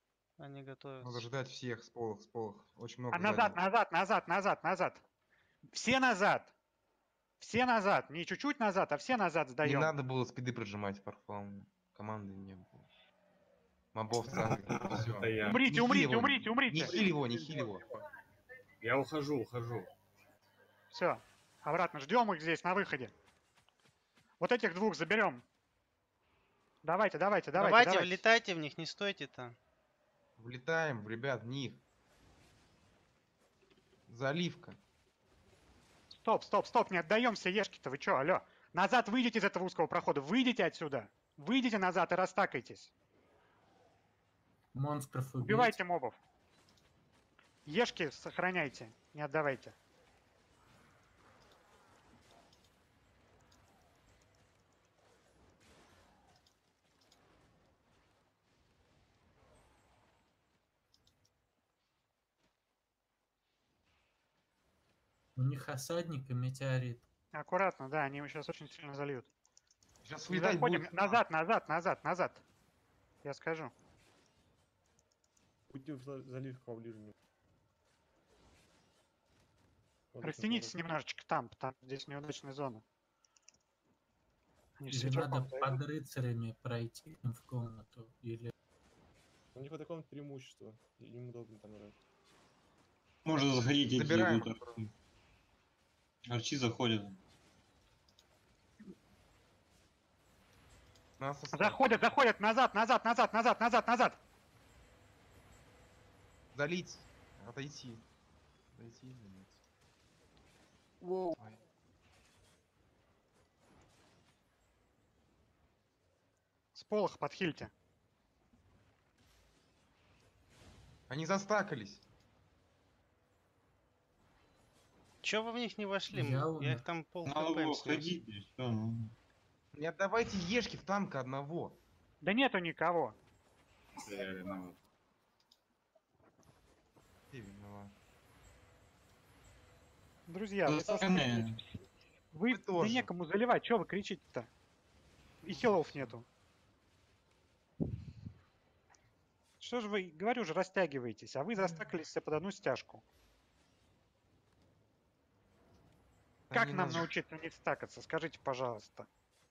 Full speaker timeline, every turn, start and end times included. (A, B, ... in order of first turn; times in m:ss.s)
0:00.4-0:01.2 A
0:01.0-0:03.6 B
0:03.1-0:05.0 C
0:05.7-0:06.5 C
0:07.4-0:09.9 C
0:09.6-0:12.9 B
0:13.9-0:17.9 B
0:14.5-0:15.0 D
0:14.7-0:15.6 E
0:15.5-0:17.0 C
0:16.8-0:17.8 F
0:18.8-0:19.9 E
0:20.9-0:23.1 C
0:24.4-0:25.4 C
0:26.8-0:28.2 C
0:27.6-0:29.6 A
0:30.4-0:31.8 B
0:34.1-0:34.8 B
0:36.1-0:42.9 C
0:44.7-0:45.8 G
0:45.4-0:46.2 C
0:47.6-0:49.8 C
1:05.4-1:07.0 G
1:07.3-1:09.3 C
1:10.0-1:11.2 B
1:10.3-1:12.4 C
1:13.2-1:13.7 C
1:15.7-1:17.1 F
1:20.1-1:20.9 F
1:20.2-1:22.8 C
1:24.8-1:25.8 C
1:24.9-1:28.5 G
1:29.5-1:32.0 F
1:33.2-1:34.9 D
1:33.9-1:34.6 B
1:36.2-1:37.2 D
1:41.2-1:42.1 B
1:41.5-1:44.2 C
1:46.5-1:48.1 B
1:48.7-1:49.6 B
1:56.8-1:57.7 C
2:01.1-2:02.0 B
2:05.2-2:08.1 A
2:06.1-2:06.9 G
2:07.2-2:09.2 D
2:09.7-2:11.8 B
2:12.2-2:13.2 C
2:14.1-2:14.8 E
2:17.3-2:18.0 B
2:20.3-2:21.6 C
2:20.6-2:21.6 D
2:22.3-2:24.5 C
2:22.5-2:23.1 B
2:25.4-2:26.3 C
2:25.5-2:26.1 B
2:29.6-2:33.0 C
2:36.5-2:37.1 B
2:36.5-2:39.1 C